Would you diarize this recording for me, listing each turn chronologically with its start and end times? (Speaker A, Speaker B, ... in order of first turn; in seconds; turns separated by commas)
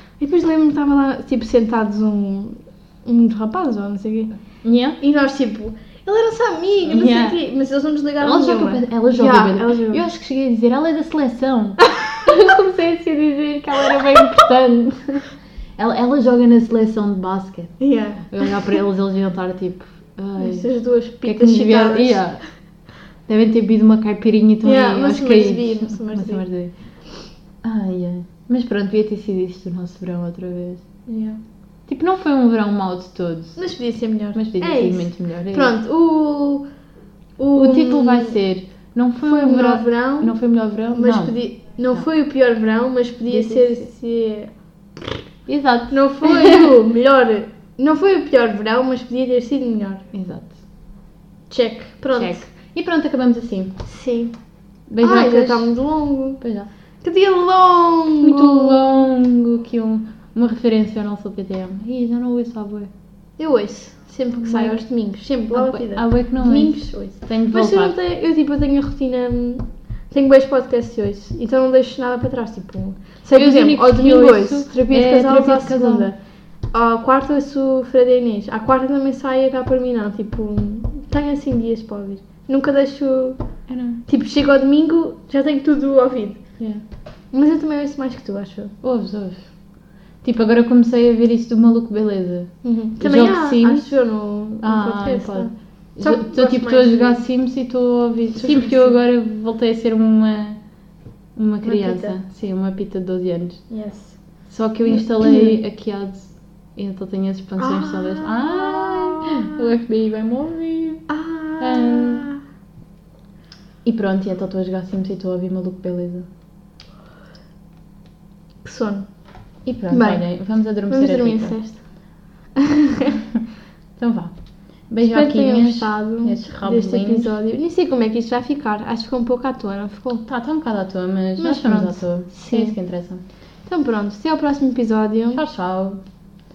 Speaker A: 0.2-4.4, Speaker B: 4.6-5.0, Speaker A: 5.0-10.0, Speaker B: 6.8-7.4, Speaker B: 8.2-20.7, Speaker A: 17.8-18.8, Speaker A: 20.4-22.2, Speaker B: 21.2-22.4, Speaker B: 23.3-26.7, Speaker A: 24.6-26.4, Speaker B: 27.6-30.8, Speaker A: 31.1-31.4, Speaker B: 31.9-33.6, Speaker A: 33.6-36.6, Speaker B: 34.4-35.7, Speaker A: 37.4-38.4, Speaker B: 37.5-41.4, Speaker A: 39.2-40.4, Speaker A: 40.9-45.2, Speaker B: 43.3-43.9, Speaker B: 45.5-46.7, Speaker A: 45.9-50.0, Speaker B: 50.1-50.5, Speaker A: 51.5-52.5, Speaker B: 52.1-53.8, Speaker A: 53.9-54.3, Speaker B: 54.9-55.7, Speaker A: 55.0-56.4, Speaker B: 56.4-56.7, Speaker A: 57.0-59.0, Speaker B: 58.2-62.9, Speaker A: 63.4-76.2, Speaker B: 64.5-64.8, Speaker B: 65.5-68.0, Speaker B: 73.3-76.1, Speaker A: 76.7-83.4, Speaker B: 83.7-84.0, Speaker A: 84.1-86.4, Speaker A: 87.3-88.7, Speaker B: 88.8-89.5, Speaker B: 90.2-94.0, Speaker A: 92.6-97.2, Speaker B: 94.6-100.6, Speaker A: 98.4-99.0, Speaker B: 101.4-103.6, Speaker A: 101.6-102.2, Speaker A: 103.7-104.2, Speaker B: 104.5-111.1, Speaker A: 104.9-105.6, Speaker A: 107.6-109.7, Speaker A: 111.1-112.4, Speaker B: 111.6-112.3, Speaker B: 113.8-116.3, Speaker A: 118.6-119.1, Speaker B: 119.7-121.6, Speaker A: 119.9-120.2, Speaker A: 120.9-121.8, Speaker A: 122.6-123.2, Speaker B: 124.0-124.3, Speaker B: 124.9-127.3, Speaker A: 125.0-130.2, Speaker B: 130.3-133.2, Speaker A: 131.4-132.8, Speaker A: 133.7-135.4, Speaker B: 135.3-136.0